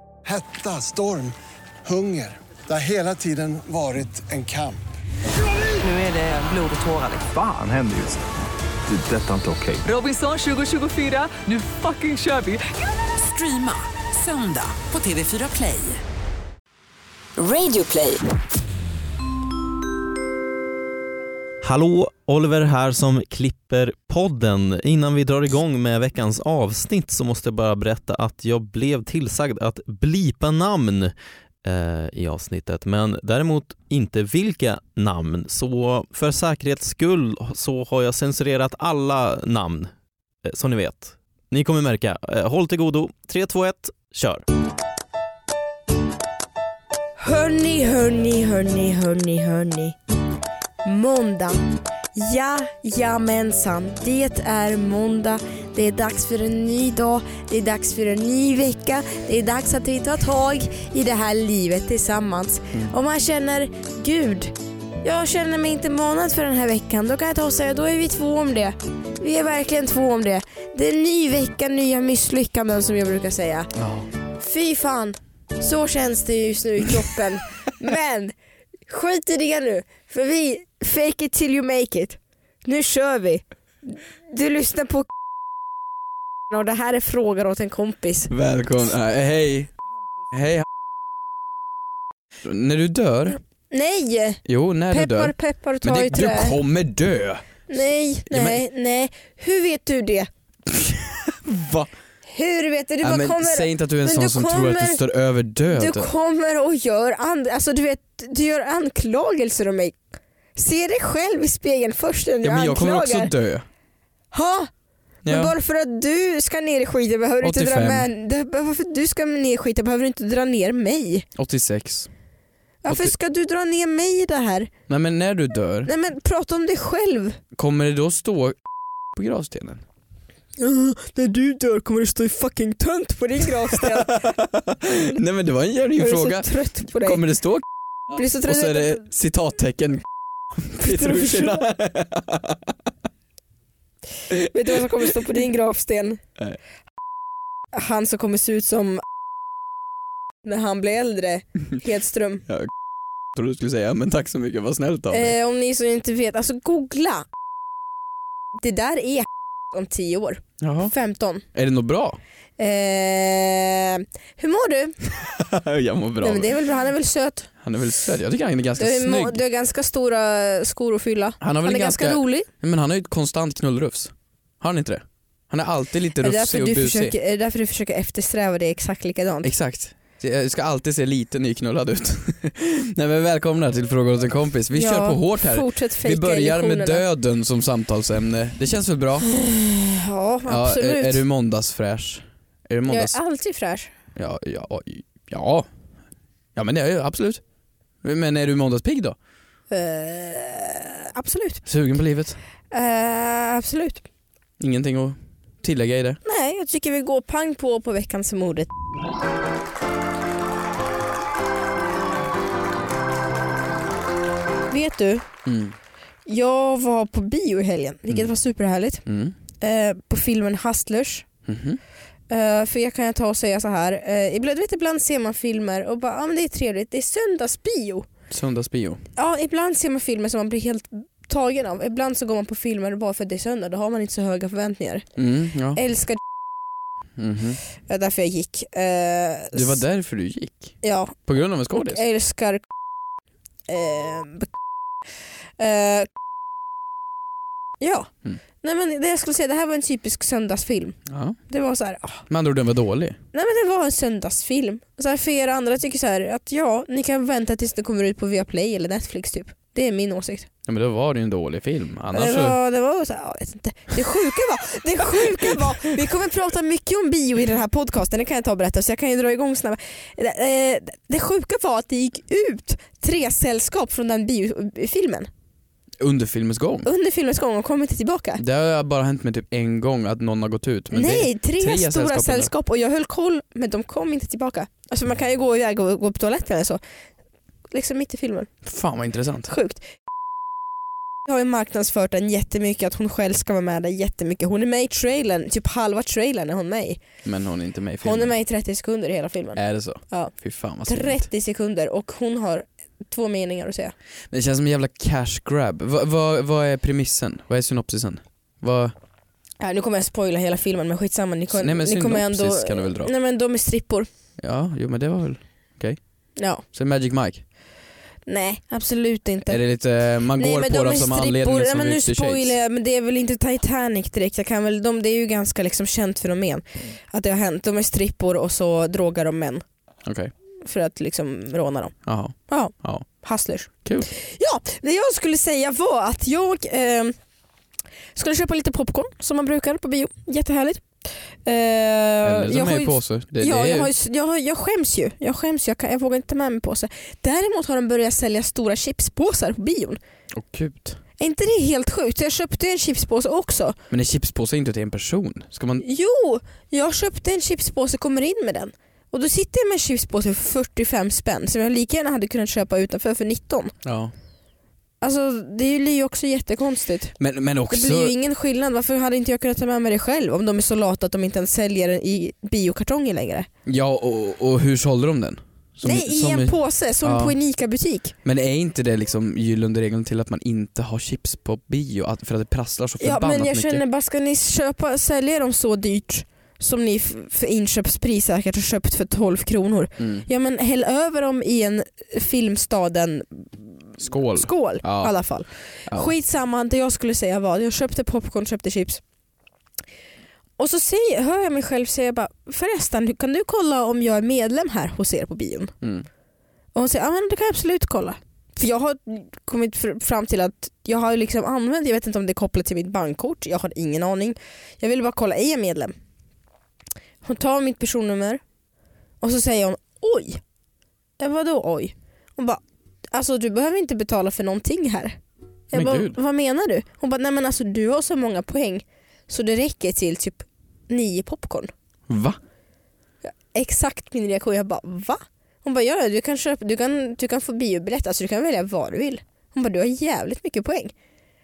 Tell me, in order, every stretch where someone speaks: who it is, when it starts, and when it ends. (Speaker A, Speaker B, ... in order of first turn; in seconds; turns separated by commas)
Speaker A: 0.3-1.3, Speaker A: 1.9-4.8, Speaker B: 5.8-7.3, Speaker C: 7.3-8.2, Speaker C: 8.9-9.9, Speaker B: 9.9-12.7, Speaker D: 13.2-13.8, Speaker B: 13.4-15.7, Speaker D: 14.8-16.0, Speaker D: 17.4-18.2, Speaker E: 21.6-39.9, Speaker E: 40.4-44.5, Speaker F: 47.2-50.0, Speaker F: 50.9-51.6, Speaker F: 52.1-73.7, Speaker G: 73.8-74.1, Speaker F: 74.4-78.3, Speaker F: 78.9-85.1, Speaker F: 86.5-88.3, Speaker G: 88.3-89.7, Speaker G: 90.3-90.7, Speaker G: 92.4-93.4, Speaker F: 93.7-96.6, Speaker G: 94.5-97.7, Speaker F: 97.7-100.3, Speaker G: 98.3-98.6, Speaker G: 100.7-101.9, Speaker F: 102.3-105.0, Speaker G: 103.0-106.1, Speaker F: 105.7-110.0, Speaker F: 110.6-113.3, Speaker G: 112.4-113.6, Speaker F: 114.3-114.7, Speaker G: 115.2-115.5, Speaker F: 115.3-121.3, Speaker G: 117.4-118.1, Speaker G: 121.4-122.1, Speaker F: 122.8-124.7, Speaker G: 122.9-123.1, Speaker G: 124.9-125.9, Speaker F: 125.9-127.4, Speaker G: 127.5-128.6, Speaker G: 129.1-129.8, Speaker F: 130.6-134.2, Speaker G: 133.7-137.6, Speaker F: 136.0-137.2, Speaker F: 138.1-139.0, Speaker G: 138.4-140.0, Speaker G: 140.6-142.7, Speaker F: 140.8-141.7, Speaker G: 144.3-144.9, Speaker F: 144.3-146.2, Speaker F: 147.7-149.0, Speaker F: 150.4-152.4, Speaker G: 153.3-155.3, Speaker F: 155.1-157.2, Speaker F: 158.6-161.4, Speaker G: 160.6-160.9, Speaker G: 161.5-162.2, Speaker F: 162.6-164.9, Speaker G: 165.2-166.5, Speaker F: 166.2-167.5, Speaker G: 167.6-169.4, Speaker F: 168.8-172.5, Speaker G: 171.4-177.1, Speaker F: 176.2-179.5, Speaker G: 179.4-189.3, Speaker F: 184.7-187.0, Speaker F: 189.3-191.2, Speaker G: 190.5-193.2, Speaker F: 192.9-193.9, Speaker G: 194.2-195.7, Speaker G: 196.6-197.4, Speaker G: 198.0-199.2, Speaker F: 199.7-201.6, Speaker G: 201.7-202.4, Speaker F: 202.7-204.0, Speaker G: 204.6-206.2, Speaker F: 206.2-208.7, Speaker F: 214.7-215.2, Speaker G: 215.4-215.7, Speaker F: 216.3-219.0, Speaker G: 219.1-219.3, Speaker F: 219.6-221.3, Speaker G: 221.4-221.8, Speaker F: 222.3-228.1, Speaker G: 228.3-229.0, Speaker F: 229.2-235.1, Speaker G: 235.2-235.8, Speaker F: 235.7-236.2, Speaker G: 237.2-237.6, Speaker F: 237.9-239.8, Speaker G: 239.5-242.0, Speaker F: 240.8-241.1, Speaker F: 241.7-242.7, Speaker F: 243.7-244.5, Speaker F: 245.6-246.1, Speaker F: 247.8-248.1, Speaker F: 248.6-251.0, Speaker G: 251.1-251.4, Speaker F: 251.5-252.2, Speaker G: 252.3-253.2, Speaker F: 253.3-260.5, Speaker G: 260.7-262.6, Speaker F: 262.1-275.3, Speaker G: 276.0-276.9, Speaker F: 276.8-278.4, Speaker G: 278.4-282.5, Speaker F: 280.9-286.8, Speaker F: 287.7-288.5, Speaker G: 288.6-289.5, Speaker F: 289.5-289.8, Speaker F: 291.2-297.0, Speaker G: 297.2-298.3, Speaker F: 298.0-300.3, Speaker G: 299.6-301.2, Speaker F: 300.9-303.9, Speaker G: 304.3-308.9, Speaker F: 309.6-314.1, Speaker G: 311.5-313.1, Speaker G: 314.4-316.0, Speaker F: 316.4-316.6, Speaker G: 316.7-317.4, Speaker F: 318.3-319.6, Speaker G: 319.5-322.6, Speaker F: 320.4-329.6, Speaker G: 330.1-330.3, Speaker F: 330.6-331.9, Speaker G: 332.1-333.1, Speaker F: 332.5-337.1, Speaker F: 338.1-340.8, Speaker F: 341.4-350.0, Speaker G: 342.2-343.9, Speaker G: 350.3-351.0, Speaker F: 351.2-353.8, Speaker G: 353.9-355.8, Speaker F: 355.8-363.7, Speaker G: 363.8-364.1, Speaker F: 365.0-367.1, Speaker G: 367.2-368.1, Speaker F: 367.7-373.5, Speaker G: 373.6-377.4, Speaker F: 375.8-378.1, Speaker G: 378.2-383.8, Speaker F: 383.0-393.6, Speaker G: 390.0-390.3, Speaker G: 394.0-395.1, Speaker F: 394.2-399.0, Speaker F: 400.6-405.7, Speaker G: 405.8-406.1, Speaker F: 406.8-415.9, Speaker F: 417.2-418.4, Speaker F: 419.2-420.4, Speaker F: 421.2-422.6, Speaker F: 423.1-425.2, Speaker G: 425.7-426.2, Speaker F: 425.7-431.7, Speaker G: 432.1-432.4, Speaker F: 433.2-440.9